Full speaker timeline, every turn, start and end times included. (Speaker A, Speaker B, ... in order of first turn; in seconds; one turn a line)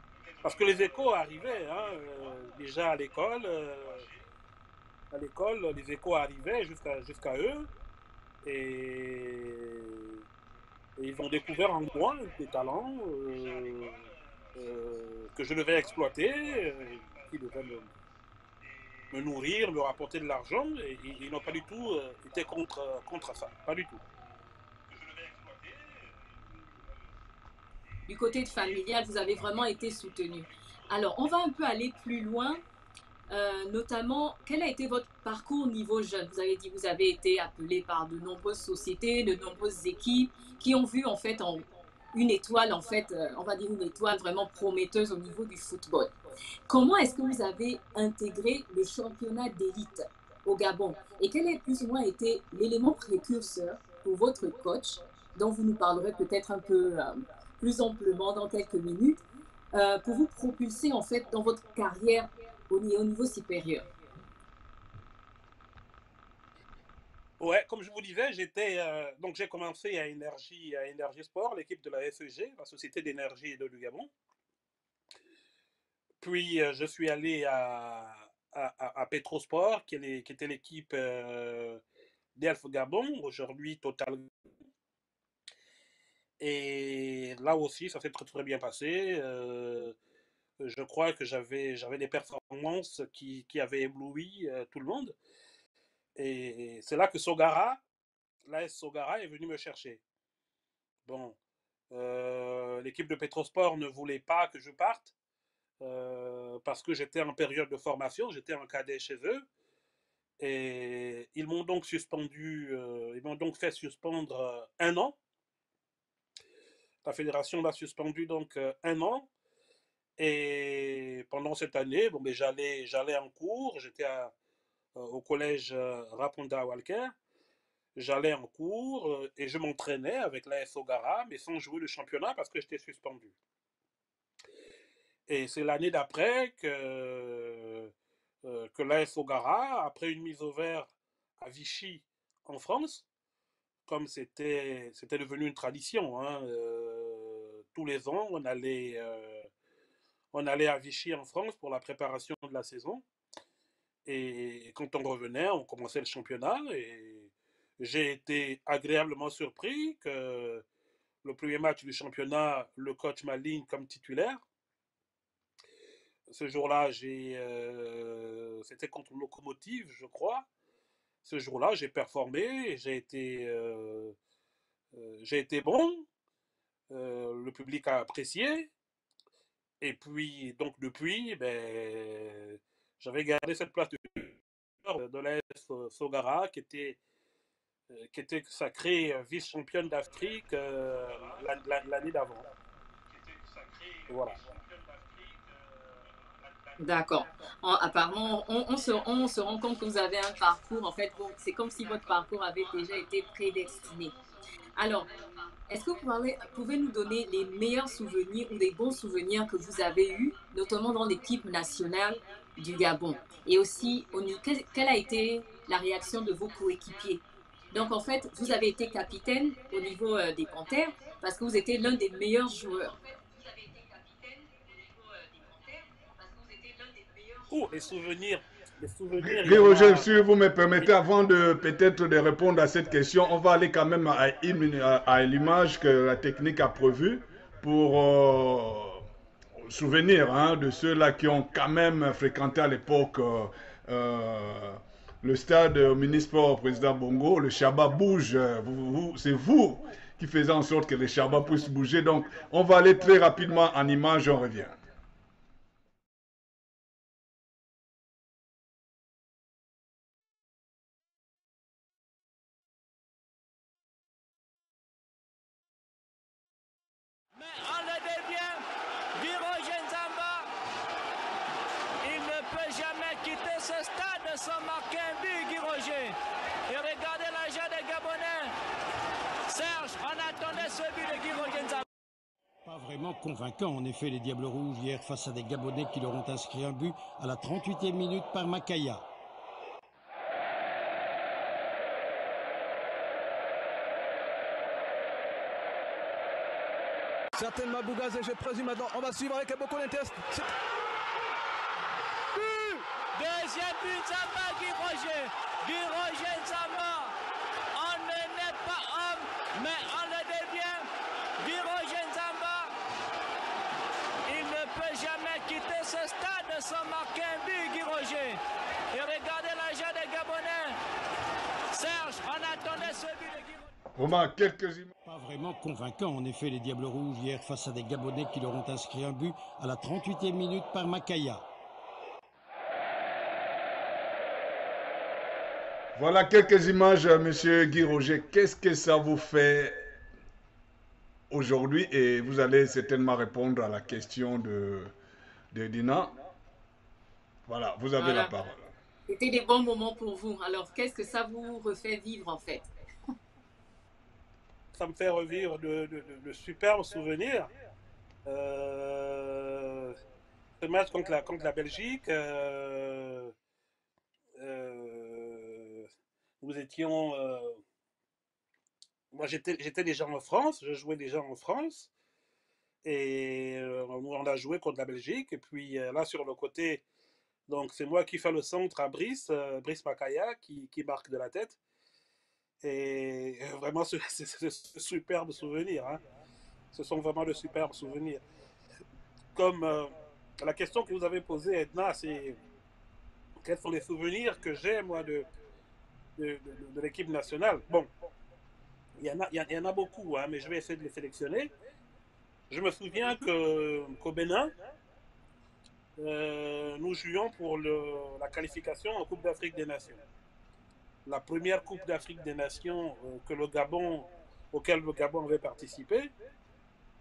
Speaker A: 0.4-4.1
Speaker A: 5.1-7.7
Speaker A: 8.4-10.2
Speaker A: 11.0-17.9
Speaker A: 19.1-24.0
Speaker B: 28.1-32.6
Speaker B: 33.3-46.1
Speaker B: 46.7-59.2
Speaker B: 59.7-63.9
Speaker A: 67.4-74.1
Speaker A: 76.2-81.8
Speaker A: 82.4-84.3
Speaker A: 86.4-90.0
Speaker A: 90.6-95.2
Speaker A: 96.2-97.8
Speaker A: 98.5-100.0
Speaker A: 101.0-101.4
Speaker A: 101.9-105.1
Speaker A: 105.8-109.5
Speaker A: 110.4-115.2
Speaker A: 117.0-119.3
Speaker A: 120.2-124.3
Speaker A: 125.0-127.2
Speaker A: 128.0-133.3
Speaker A: 135.3-137.9
Speaker A: 138.4-143.1
Speaker A: 143.9-149.5
Speaker A: 150.3-153.0
Speaker A: 154.1-160.6
Speaker A: 161.2-164.4
Speaker A: 166.3-170.5
Speaker A: 171.2-174.2
Speaker A: 174.9-176.1
Speaker A: 176.9-178.7
Speaker A: 179.8-187.0
Speaker A: 187.9-192.5
Speaker A: 194.1-194.5
Speaker B: 196.8-204.1
Speaker B: 204.8-205.1
Speaker B: 205.7-227.5
Speaker A: 227.5-230.1
Speaker C: 229.2-239.1
Speaker C: 239.6-254.8
Speaker D: 267.4-268.6
Speaker D: 269.2-270.5
Speaker D: 272.0-276.2
Speaker D: 276.7-278.5
Speaker D: 279.5-281.8
Speaker E: 282.6-289.1
Speaker F: 297.4-300.5
Speaker F: 302.4-302.8
Speaker D: 303.0-307.1
Speaker D: 307.8-310.9
Speaker D: 311.4-312.7
Speaker D: 314.3-318.4
Speaker D: 318.9-320.8
Speaker D: 321.7-323.7
Speaker C: 324.0-324.9
Speaker E: 325.1-331.5
Speaker C: 335.9-339.9
Speaker C: 341.3-344.9
Speaker C: 345.5-346.2
Speaker C: 347.5-348.7
Speaker B: 348.0-348.3
Speaker B: 349.1-352.7
Speaker A: 354.7-357.5
Speaker A: 358.3-359.9
Speaker A: 360.6-363.3
Speaker A: 364.4-365.9
Speaker A: 366.4-367.6
Speaker A: 369.1-371.9
Speaker A: 372.8-376.8
Speaker A: 377.5-381.6
Speaker A: 382.6-386.0
Speaker A: 386.7-388.2
Speaker A: 389.4-392.4
Speaker A: 393.4-395.3
Speaker A: 396.2-397.9
Speaker A: 399.0-401.5
Speaker A: 402.5-404.5
Speaker A: 406.0-410.0
Speaker A: 411.1-416.1